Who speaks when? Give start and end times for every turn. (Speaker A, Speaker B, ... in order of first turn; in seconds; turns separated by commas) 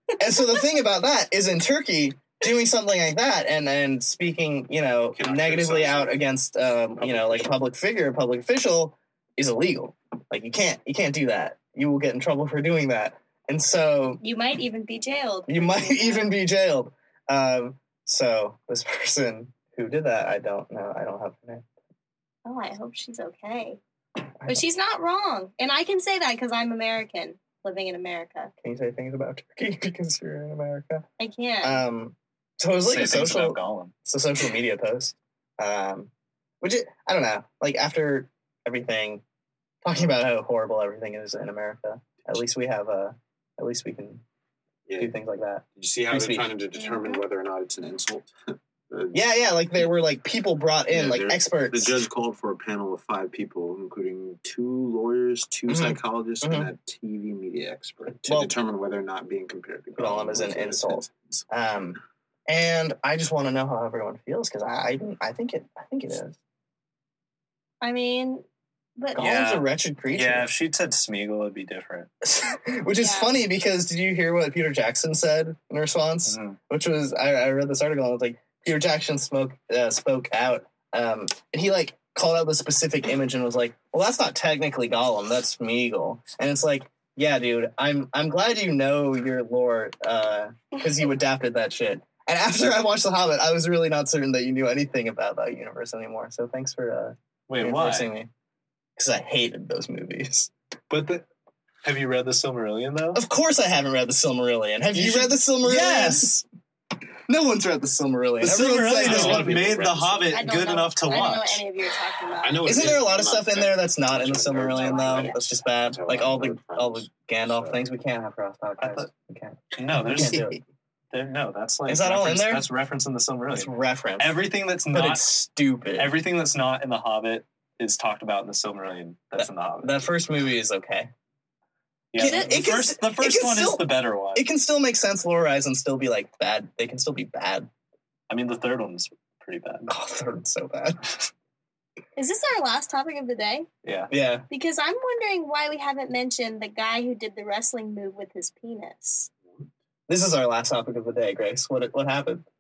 Speaker A: 0.2-14.2, Speaker B: 5.1-6.3, Speaker B: 7.0-7.6, Speaker C: 14.2-16.3, Speaker A: 15.5-21.7, Speaker C: 22.4-23.8, Speaker C: 24.4-28.5, Speaker A: 28.6-31.1, Speaker C: 31.2-31.8, Speaker A: 31.6-39.2, Speaker D: 32.9-33.9, Speaker A: 39.8-44.2, Speaker B: 44.9-45.2, Speaker A: 45.0-46.5, Speaker B: 45.8-49.2, Speaker C: 46.8-47.2, Speaker A: 49.1-52.0, Speaker B: 50.9-61.5, Speaker A: 55.7-56.7, Speaker A: 58.3-58.5, Speaker A: 60.0-66.4, Speaker C: 67.8-68.5, Speaker A: 69.2-70.5, Speaker D: 69.2-72.1, Speaker A: 72.3-98.3, Speaker C: 73.0-73.3, Speaker D: 76.3-76.6, Speaker D: 97.5-98.2, Speaker A: 99.0-100.5, Speaker D: 100.9-101.3, Speaker D: 101.8-103.2, Speaker A: 103.1-106.4, Speaker D: 104.9-106.4, Speaker A: 107.3-109.7, Speaker D: 108.4-111.7, Speaker B: 109.0-110.5, Speaker C: 110.3-112.7, Speaker B: 112.4-117.8, Speaker A: 112.7-120.6, Speaker C: 114.7-115.4, Speaker D: 118.8-119.1, Speaker D: 119.7-120.5, Speaker D: 121.1-125.3, Speaker A: 121.9-122.7, Speaker A: 123.5-124.3, Speaker A: 124.9-126.2, Speaker D: 126.0-130.0, Speaker A: 129.4-131.1, Speaker D: 132.1-134.5, Speaker A: 132.2-137.7, Speaker C: 132.2-132.6, Speaker D: 138.3-139.9, Speaker A: 139.9-141.3, Speaker C: 142.2-143.7, Speaker D: 143.8-144.1, Speaker A: 144.1-144.5, Speaker C: 144.5-149.3, Speaker A: 150.1-152.4